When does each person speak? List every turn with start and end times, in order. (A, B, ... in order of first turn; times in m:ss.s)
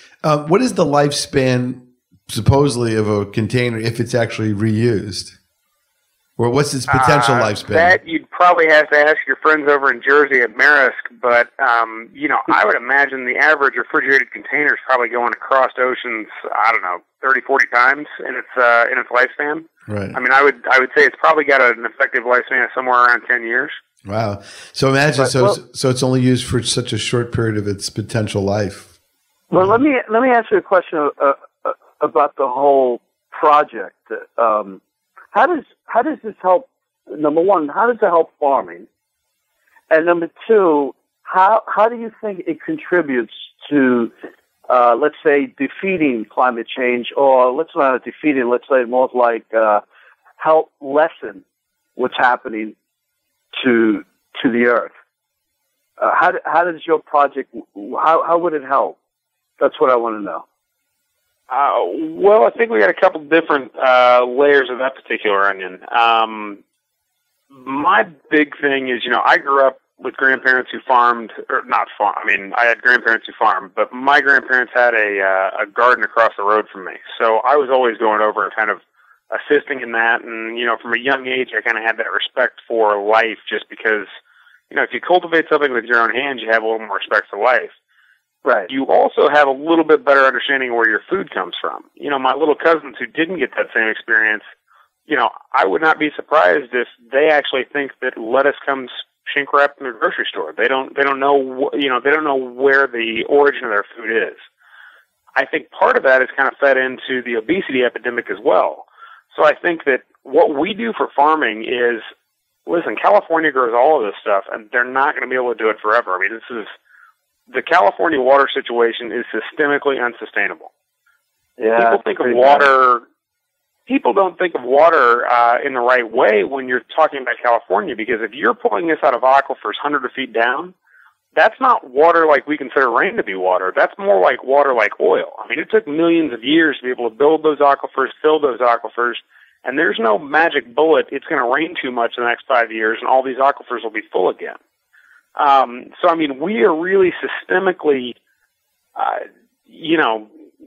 0:00.2-0:05.4 A
0:06.4-0:08.0 A
0:06.9-0:23.8 B
0:19.9-0:20.2 A
0:24.1-0:28.9 A
0:25.2-0:25.6 C
0:29.5-0:34.8 C
0:35.3-0:38.9 C
0:39.9-0:44.1 C
0:44.7-0:49.8 C
0:50.4-0:51.4 C
0:52.0-0:52.8 C
0:53.5-0:54.9 C
0:56.0-0:59.0 C
0:59.6-1:00.4 C
1:01.5-1:06.6 B
1:07.5-1:18.8 B
1:19.3-1:24.1 B
1:24.7-1:27.7 B
1:28.4-1:28.7 C
1:28.7-1:34.4 B
1:35.1-1:44.4 B
1:45.4-1:52.0 B
1:52.7-1:56.7 B
1:57.5-2:00.7 B
2:01.6-2:02.7 C
2:01.8-2:03.0 B
2:03.9-2:10.7 B
2:11.4-2:24.6 B
2:25.4-2:28.2 B
2:29.0-2:30.3 B